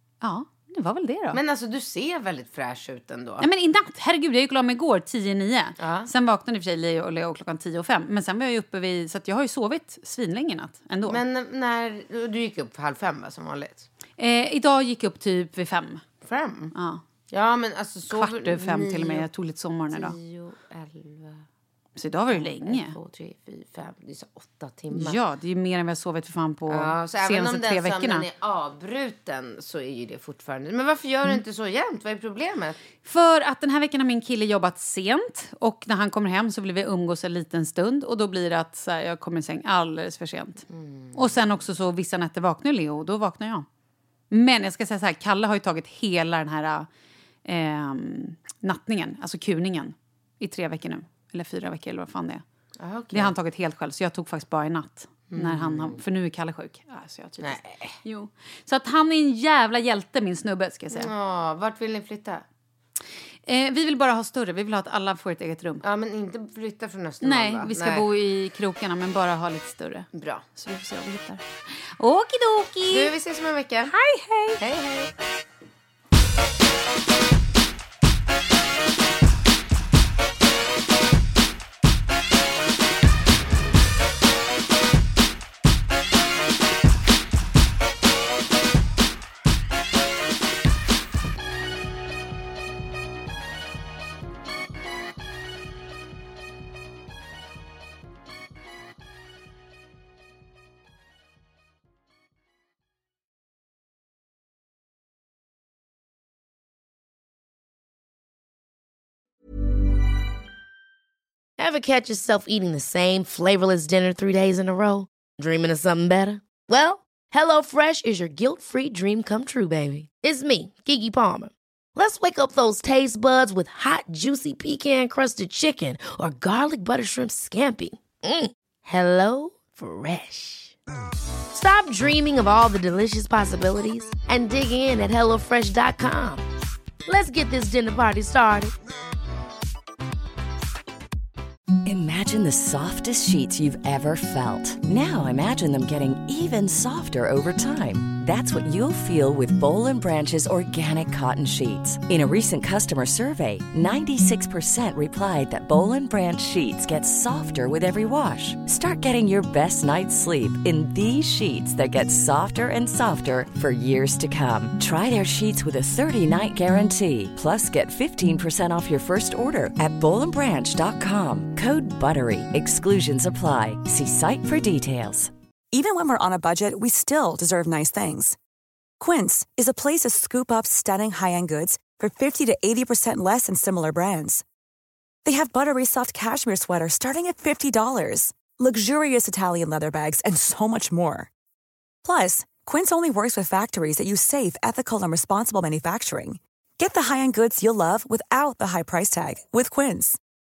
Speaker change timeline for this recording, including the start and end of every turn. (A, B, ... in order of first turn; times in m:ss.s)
0:00.2-0:01.4 A
0:01.3-0:03.5 B
0:03.4-0:11.2 A
0:05.8-0:06.1 B
0:11.1-0:13.9 B
0:14.2-0:16.0 A
0:16.2-0:16.7 B
0:16.7-0:17.0 A
0:17.3-0:19.3 B
0:18.1-0:20.2 A
0:19.9-0:21.4 B
0:22.0-0:23.0 A
0:22.3-0:25.2 B
0:24.9-0:28.2 A
0:26.7-0:32.8 B
0:33.0-0:43.7 A
0:40.7-0:41.2 B
0:44.3-0:46.9 A
0:47.4-0:52.4 A
0:52.8-0:53.3 B
0:53.1-1:01.1 A
0:55.3-0:56.0 B
0:57.4-0:58.0 B
1:00.9-1:02.4 B
1:03.5-1:05.8 A
1:05.8-1:08.1 B
1:07.2-1:13.1 A
1:10.2-1:10.4 B
1:12.9-1:13.9 B
1:13.9-1:14.6 A
1:14.6-1:15.1 B
1:51.6-2:10.8 C
2:11.5-2:16.4 C
2:17.1-2:18.7 C
2:21.8-2:55.3 D
2:55.7-2:58.4 E
2:59.0-3:04.4 E
3:05.2-3:11.3 E
3:12.0-3:20.2 E